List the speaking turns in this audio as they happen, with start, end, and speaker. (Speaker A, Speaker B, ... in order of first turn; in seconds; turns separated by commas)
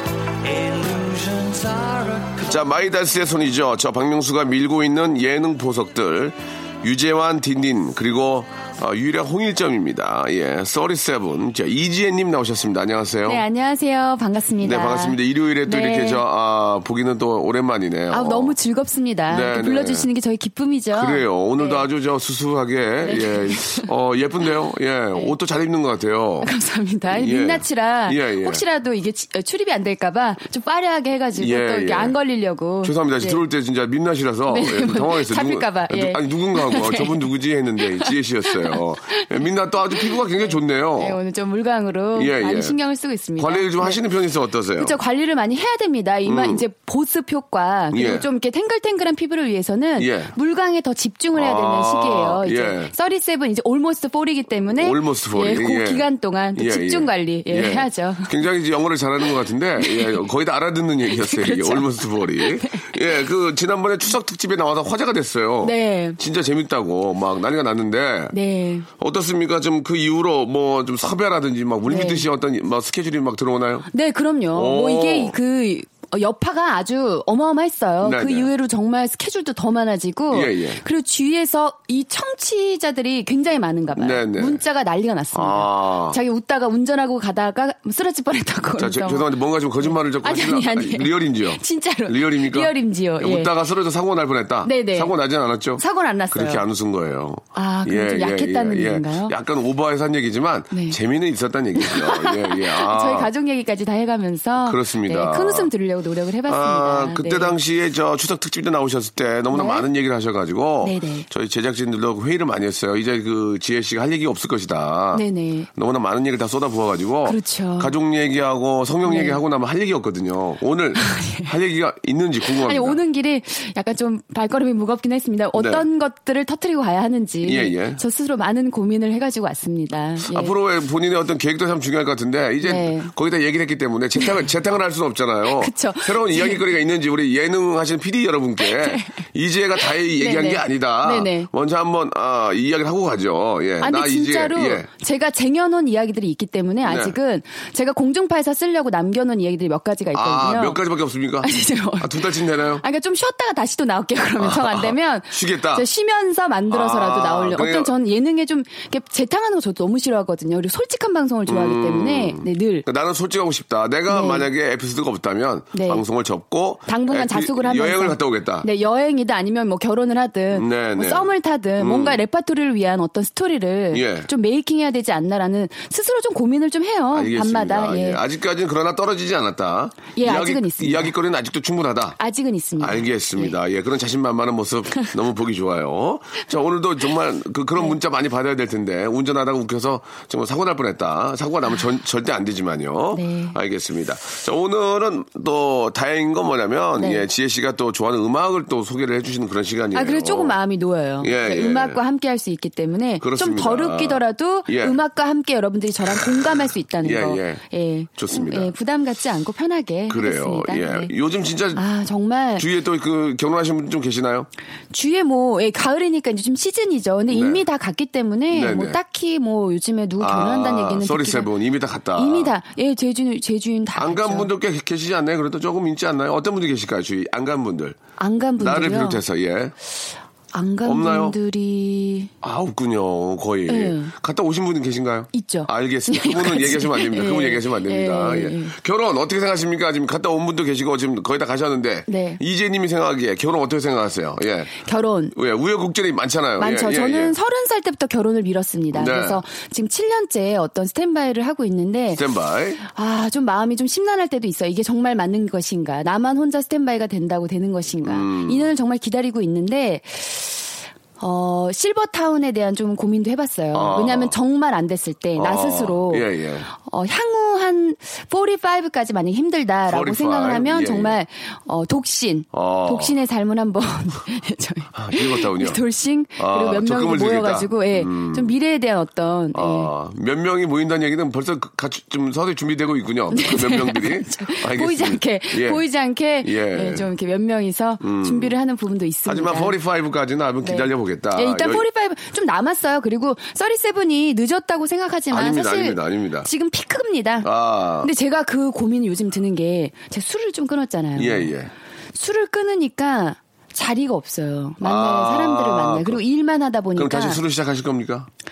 Speaker A: 0.4-2.7, Speaker B: 2.5-13.4, Speaker C: 13.2-16.2, Speaker B: 14.6-18.5, Speaker C: 18.1-21.8, Speaker B: 19.3-20.1, Speaker B: 20.9-26.5, Speaker C: 23.0-23.9, Speaker C: 26.4-33.4, Speaker B: 27.1-28.6, Speaker B: 31.4-32.2, Speaker B: 32.8-41.2, Speaker C: 34.5-37.2, Speaker C: 37.9-44.0, Speaker B: 42.1-42.8, Speaker B: 43.4-45.0, Speaker C: 44.8-58.3, Speaker B: 46.2-46.6, Speaker B: 47.9-48.3, Speaker B: 50.0-50.3, Speaker B: 51.3-52.9, Speaker B: 54.8-68.3, Speaker C: 59.8-60.2, Speaker C: 61.1-62.9, Speaker C: 65.6-66.2, Speaker C: 68.3-68.9, Speaker B: 69.0-73.9, Speaker C: 71.8-72.2, Speaker C: 73.9-93.5, Speaker B: 74.5-75.3, Speaker B: 78.0-78.5, Speaker B: 80.3-80.8, Speaker B: 83.9-84.6, Speaker B: 85.3-86.2, Speaker B: 88.8-103.3, Speaker C: 94.6-95.1, Speaker C: 95.8-96.6, Speaker C: 97.5-99.3, Speaker C: 100.7-101.0, Speaker C: 101.8-107.5, Speaker B: 104.6-105.7, Speaker B: 106.5-123.0, Speaker C: 109.5-109.8, Speaker C: 110.8-111.3, Speaker C: 115.1-115.7, Speaker C: 117.2-117.9, Speaker C: 119.0-119.4, Speaker C: 121.0-121.5, Speaker C: 122.5-130.5, Speaker B: 125.5-125.8, Speaker B: 127.4-128.0, Speaker B: 130.2-144.9, Speaker C: 132.6-133.1, Speaker C: 135.5-136.6, Speaker C: 138.6-139.2, Speaker C: 139.8-141.5, Speaker C: 143.8-150.8, Speaker B: 146.8-147.2, Speaker B: 150.1-152.8, Speaker C: 151.4-162.8, Speaker B: 154.4-155.8, Speaker B: 156.7-157.9, Speaker B: 161.5-168.7, Speaker C: 164.1-164.5, Speaker C: 165.7-166.0, Speaker C: 166.9-178.2, Speaker B: 170.5-172.2, Speaker B: 173.9-174.3, Speaker B: 177.1-182.2, Speaker C: 180.1-181.1, Speaker C: 182.2-183.6, Speaker B: 182.8-200.6, Speaker C: 193.1-193.6, Speaker C: 197.0-197.2, Speaker C: 199.9-211.1, Speaker B: 201.2-202.0, Speaker B: 203.2-204.9, Speaker B: 207.0-207.6, Speaker B: 208.2-208.7, Speaker B: 210.1-211.8, Speaker C: 211.7-212.7, Speaker B: 212.6-214.5, Speaker C: 214.9-221.5, Speaker B: 217.3-217.6, Speaker B: 218.5-219.0, Speaker B: 220.2-222.5, Speaker C: 222.1-224.5, Speaker B: 223.9-228.0, Speaker C: 228.2-229.2, Speaker B: 228.6-229.7, Speaker C: 230.5-232.3, Speaker B: 230.8-231.3, Speaker B: 232.4-244.8, Speaker C: 233.7-234.1, Speaker C: 235.3-238.8, Speaker C: 242.1-242.4, Speaker C: 244.8-245.3, Speaker B: 245.3-247.3, Speaker C: 246.6-252.2, Speaker B: 248.9-249.4, Speaker B: 252.1-252.8, Speaker C: 252.8-279.9, Speaker B: 258.0-258.7, Speaker B: 263.7-264.3, Speaker B: 265.4-266.7, Speaker B: 269.9-271.2, Speaker B: 272.5-273.1, Speaker B: 274.9-275.8, Speaker B: 276.4-278.5, Speaker B: 279.5-285.8, Speaker C: 283.3-289.7, Speaker B: 286.4-287.1, Speaker B: 288.0-288.5, Speaker B: 289.2-291.8, Speaker C: 290.6-297.5, Speaker B: 295.3-296.5, Speaker B: 297.4-298.1, Speaker C: 298.0-301.5, Speaker B: 301.2-301.7, Speaker C: 302.1-307.4, Speaker B: 304.8-306.2, Speaker B: 306.9-308.3